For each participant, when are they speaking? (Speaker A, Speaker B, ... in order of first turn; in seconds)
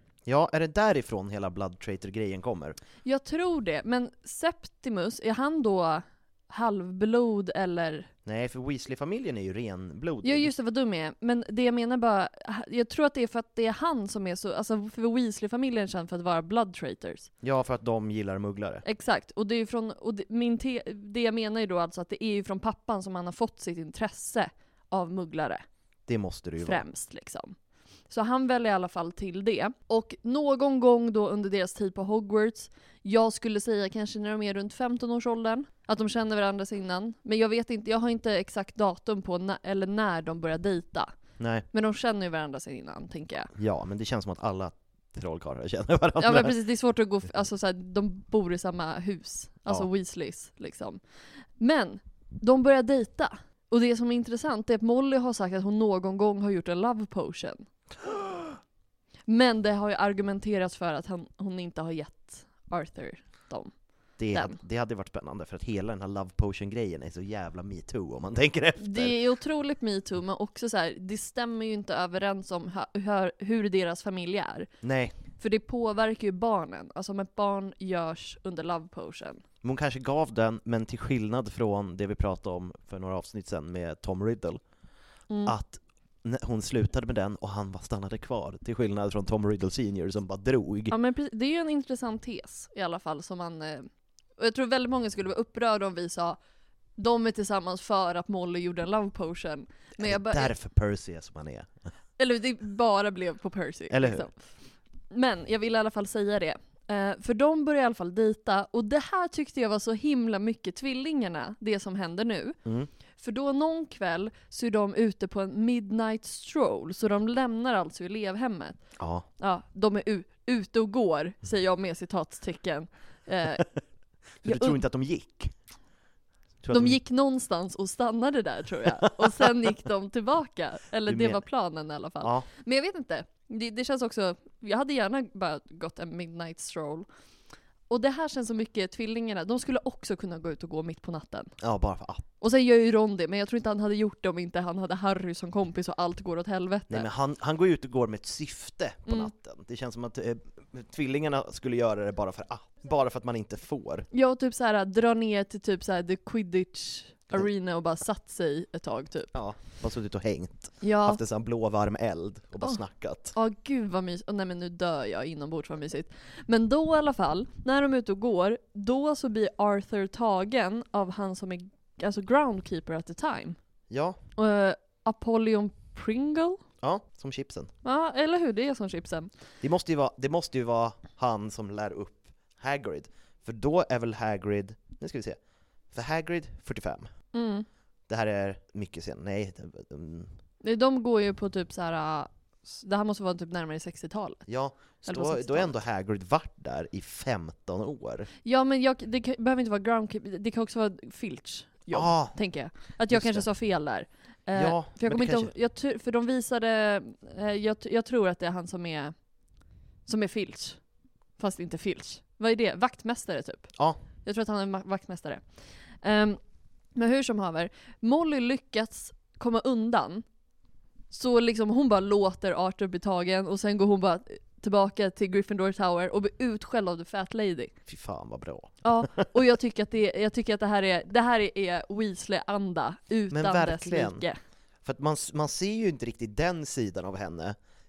Speaker A: 0.3-2.8, 8.3-10.5, 17.4-18.8, 26.1-26.8, 41.4-41.6, 43.5-46.6, 64.2-69.2, 74.8-75.2, 79.6-84.6, 85.5-91.0, 100.0-101.7, 103.9-104.3, 112.7-112.9, 119.0-119.3, 124.4-125.5, 126.6-127.0, 129.0-129.5, 131.1-131.4, 132.2-132.5, 141.6-142.3, 146.9-154.1, 159.3-163.3, 173.9-174.2, 176.8-177.7, 179.6-185.4, 185.9-187.1, 188.1-190.3, 194.5-198.3, 201.9-203.5, 204.5-205.5, 227.9-229.4, 233.3-234.2, 234.8-237.6
Speaker B: 3.0-8.1, 10.2-17.3, 18.8-25.6, 26.6-27.6, 28.1-41.1, 41.7-43.5, 46.2-51.0, 51.6-57.7, 59.3-63.7, 64.3-64.6, 68.8-74.7, 75.4-79.4, 85.3-85.5, 90.9-96.4, 97.0-100.5, 102.2-104.4, 105.1-112.6, 113.2-118.8, 119.4-123.7, 124.4-124.8, 126.7-137.1, 137.9-141.5, 142.4-147.1, 154.1-159.3, 160.8-161.2, 163.3-173.6, 174.4-176.6, 177.8-179.3, 187.3-187.7, 190.6-194.5, 195.0-195.8, 198.4-209.1, 210.1-210.8, 211.4-213.7, 214.2-216.4, 216.9-220.2, 221.1-227.7, 228.8-234.4